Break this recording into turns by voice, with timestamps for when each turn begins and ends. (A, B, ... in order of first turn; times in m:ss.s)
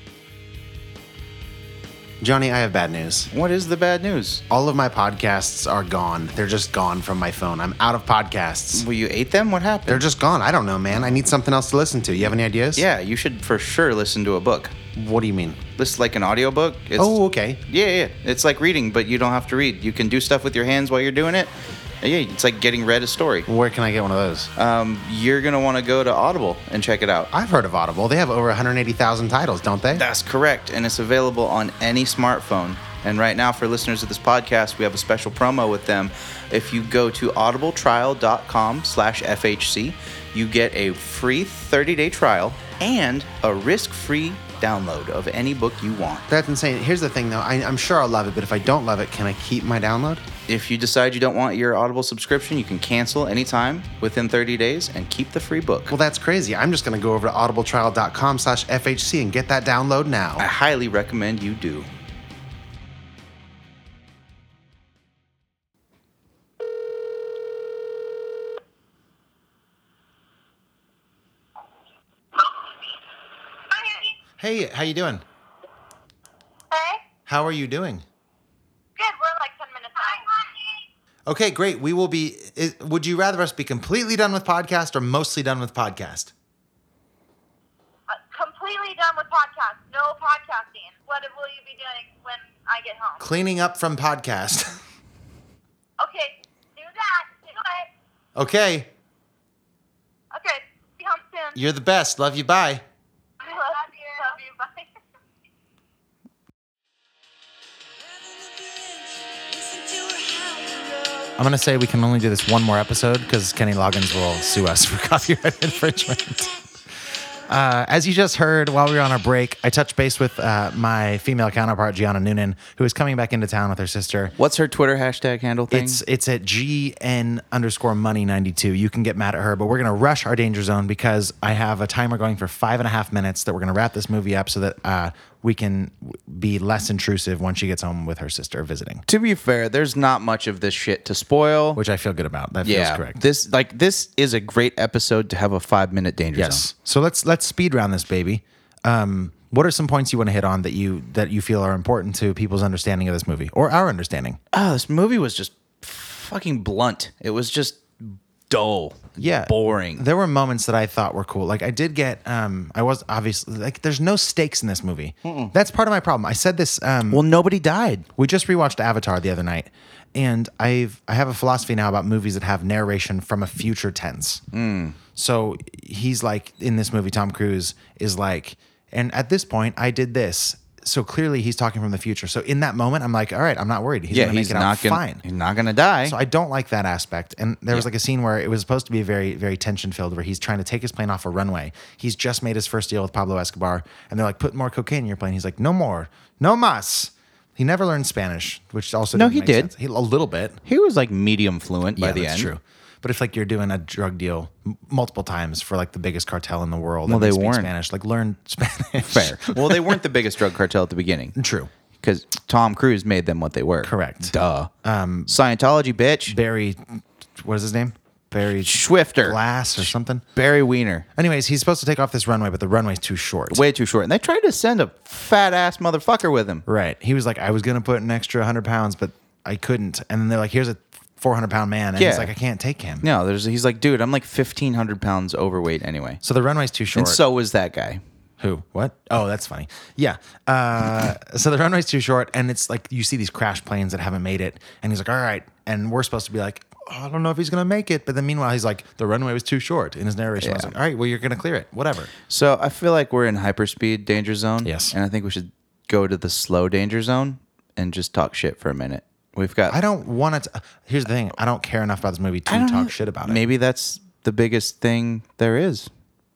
0:02.2-0:03.3 A
0:03.3-0:04.4 B
0:04.5-0:08.9 A
0:08.7-0:10.0 B
0:09.9-0:12.9 A
0:12.8-0:14.8 B
0:14.9-0:15.6 A
0:15.8-0:23.5 B
0:17.0-0:17.6 A
0:23.5-0:24.5 A
0:24.6-0:27.3 B
0:27.3-0:30.0 A
0:29.9-0:46.3 B
0:46.3-0:50.2 A
0:50.5-0:55.9 B
0:55.9-1:00.4 A
1:00.4-1:01.9 B
1:12.4-1:12.6 C
1:13.7-1:14.2 C
1:14.4-1:15.2 A
1:16.7-1:17.0 C
1:17.3-1:18.0 A
1:19.0-1:20.9 C
1:21.3-1:26.3 A
1:28.1-1:33.2 C
1:33.2-1:34.8 A
1:36.0-1:37.9 C
1:38.4-1:38.9 A
1:40.3-1:41.6 C
1:41.6-1:42.8 A
1:43.4-1:44.9 C
1:51.4-1:56.6 A
1:57.4-2:04.3 A
2:04.4-2:06.0 B
2:05.7-2:19.0 A
2:19.1-2:21.8 B
2:21.8-2:23.2 A
2:22.6-2:26.6 B
2:26.4-2:34.4 A
2:34.5-2:40.0 B
2:39.2-2:47.2 A
2:47.1-2:48.1 B
2:48.2-2:54.4 A
2:54.5-2:55.0 B
2:55.2-3:05.2 A
3:04.1-3:06.2 B
3:06.0-3:20.6 A
3:19.1-3:19.7 B
3:20.6-3:22.5 B
3:22.0-3:30.0 A
3:27.0-3:27.7 B
3:29.1-3:31.3 B
3:31.4-3:31.7 A
3:32.0-3:34.7 B
3:33.8-3:35.3 A
3:35.3-3:36.4 B
3:36.3-3:40.2 A
3:38.6-3:39.4 B
3:40.3-3:41.0 B
3:41.2-3:43.6 A
3:43.5-3:46.6 B
3:46.6-3:53.0 A
3:52.0-3:52.3 B
3:53.0-3:56.2 B
3:56.2-3:57.2 A
3:56.9-3:58.0 B
3:58.4-4:12.1 A
4:10.4-4:10.7 B
4:12.3-4:19.8 B
4:14.6-4:14.9 A
4:19.7-4:23.4 A
4:22.5-4:25.9 B